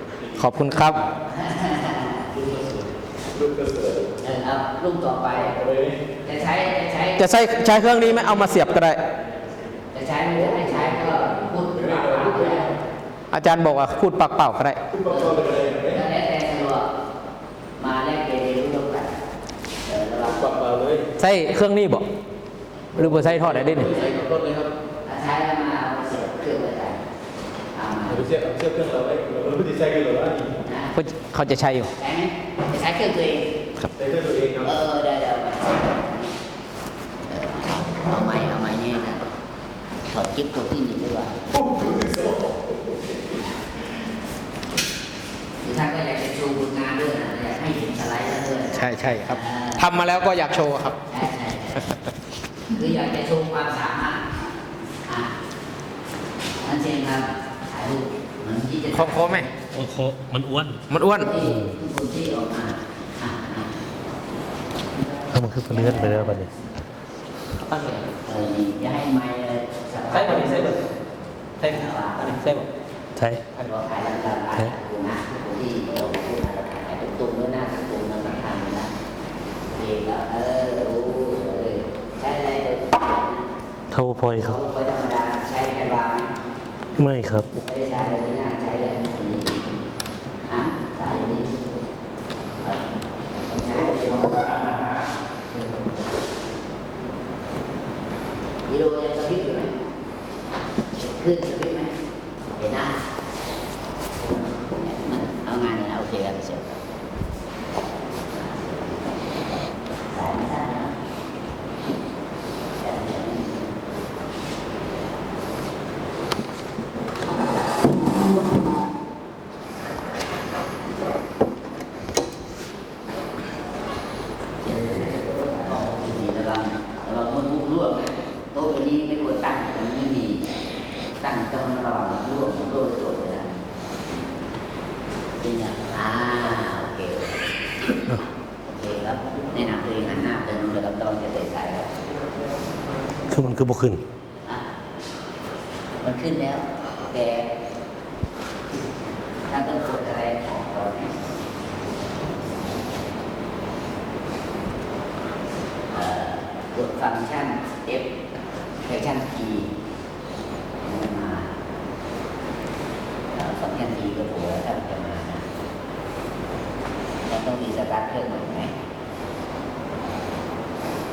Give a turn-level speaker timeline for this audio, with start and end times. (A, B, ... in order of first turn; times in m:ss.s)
0:00.3-0:01.0 A
0:01.2-0:02.6 B
0:03.4-0:04.0 C
0:04.2-0:05.6 B
0:05.6-0:06.0 C
0:06.2-0:07.3 B
0:07.2-0:09.0 A
0:09.9-0:12.8 B
0:12.0-0:12.4 C
0:13.3-0:14.8 A
0:14.9-0:16.0 C
0:15.1-0:16.9 B
0:17.8-0:19.2 B
0:19.9-0:20.7 B
0:20.5-0:21.1 C
0:21.2-0:22.1 A
0:23.0-0:24.0 A
0:23.6-0:24.7 C
0:25.0-0:27.0 B
0:27.7-0:28.3 B
0:28.2-0:30.6 C
0:30.6-0:31.0 B
0:31.0-0:31.9 A
0:32.0-0:33.6 B
0:34.0-0:34.7 C
0:34.6-0:36.3 B
0:37.3-0:39.2 B
0:40.1-0:42.1 B
0:41.8-0:42.3 C
0:45.6-0:49.9 B
0:48.8-0:51.0 A
0:51.1-0:52.0 B
0:52.7-0:54.3 B
0:55.1-0:55.3 B
0:56.6-0:59.5 B
0:58.9-0:59.5 A
0:59.7-1:00.8 D
1:00.9-1:01.3 A
1:01.1-1:03.8 B
1:05.3-1:06.5 D
1:05.6-1:06.5 B
1:07.7-1:08.0 A
1:08.1-1:10.8 B
1:10.2-1:10.8 A
1:11.6-1:12.4 B
1:12.2-1:12.7 A
1:13.2-1:13.5 D
1:13.6-1:18.9 B
1:19.7-1:23.5 B
1:23.9-1:24.5 D
1:24.3-1:26.3 B
1:27.0-1:27.5 D
1:27.6-1:29.6 B
1:30.5-1:31.6 B
1:32.6-1:32.9 B
1:33.4-1:35.1 B
1:38.7-1:39.8 B
1:40.9-1:41.9 B
1:42.6-1:43.0 B
1:44.6-1:46.8 B
1:48.3-1:49.1 B
1:50.1-1:50.9 B
1:52.8-1:53.7 B
2:04.6-2:10.5 B
2:11.2-2:13.5 B
2:15.4-2:17.4 B
2:18.7-2:21.9 B
2:23.3-2:24.0 D
2:26.0-2:27.5 B
2:29.5-2:31.3 B
2:35.9-2:38.1 B
2:38.8-2:39.7 B
2:40.8-2:41.5 B
2:43.3-2:45.4 B
2:47.3-2:48.7 B